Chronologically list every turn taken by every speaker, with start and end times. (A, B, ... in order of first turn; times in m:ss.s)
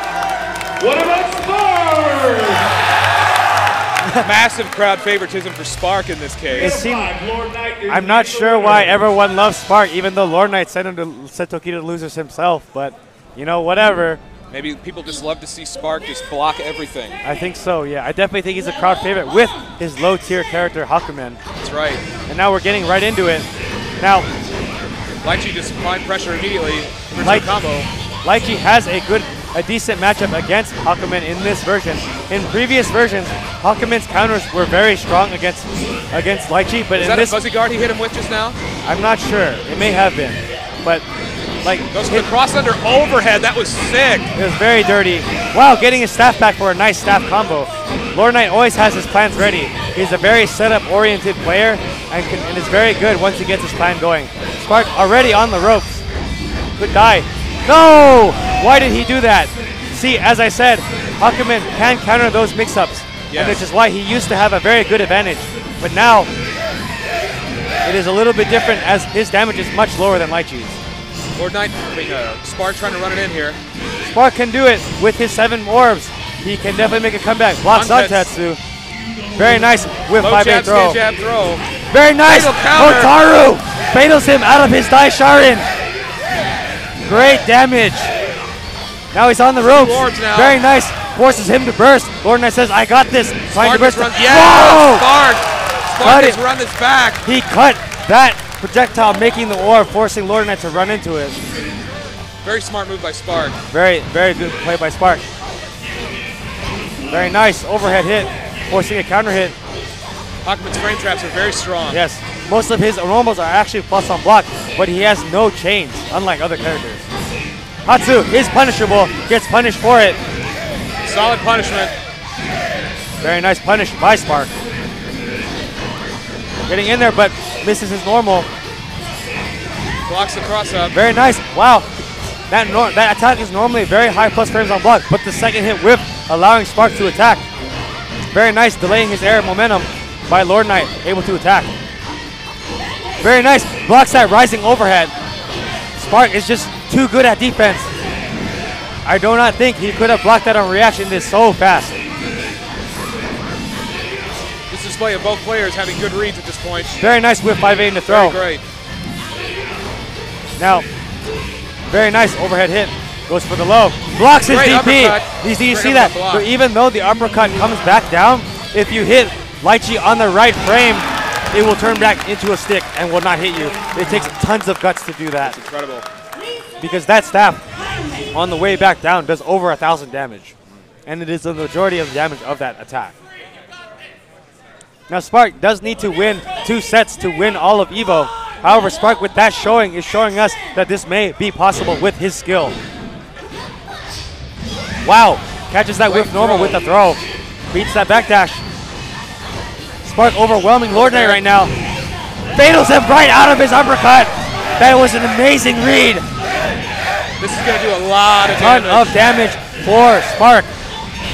0:00.8-0:02.6 A
0:04.2-0:06.8 B
0:06.6-0:09.0 A
0:06.6-0:07.1 C
0:07.9-0:14.2 C
0:14.5-0:17.2 B
0:17.2-0:21.4 C
0:21.6-0:22.0 B
0:22.3-0:23.5 C
0:24.0-0:24.3 C
0:25.2-0:27.9 B
0:27.2-0:27.5 C
0:28.2-0:37.4 C
0:37.0-0:38.6 B
0:38.8-0:41.0 C
0:41.6-0:42.3 C
0:41.9-0:44.3 B
0:44.3-0:56.0 C
0:56.8-1:06.3 C
1:03.3-1:03.6 B
1:07.8-1:10.8 C
1:11.4-1:13.6 B
1:14.0-1:18.6 C
1:17.7-1:18.3 B
1:19.4-1:21.0 C
1:20.2-1:21.6 B
1:21.9-1:25.6 C
1:22.2-1:23.2 B
1:27.0-1:28.1 C
1:29.1-1:35.0 C
1:29.6-1:30.6 B
1:33.5-1:37.2 B
1:36.0-1:36.4 C
1:37.2-1:41.4 C
1:42.4-1:43.6 B
1:43.7-1:45.2 C
1:47.1-1:49.5 C
1:50.4-1:52.0 B
1:51.9-1:57.0 C
1:57.8-2:00.2 C
2:01.0-2:01.9 B
2:03.2-2:04.5 C
2:06.7-2:08.5 C
2:10.1-2:10.9 B
2:10.9-2:11.9 C
2:12.5-2:17.4 C
2:18.3-2:21.7 C
2:23.2-2:25.1 C
2:26.0-2:27.9 C
2:29.0-2:32.0 C
2:34.7-2:37.0 B
2:37.0-2:38.4 C
2:38.1-2:38.6 B
2:40.6-2:40.8 C
2:41.9-2:55.6 C
2:44.4-2:46.5 B
2:55.4-2:56.0 B
2:56.8-2:57.6 C
2:58.3-3:00.5 C
3:01.0-3:03.2 C
3:05.1-3:12.8 C
3:15.0-3:17.2 C
3:16.0-3:16.8 B
3:17.7-3:18.6 C
3:20.0-3:21.7 C
3:20.9-3:21.4 B
3:22.5-3:26.2 C
3:27.4-3:29.1 B
3:28.5-3:30.7 C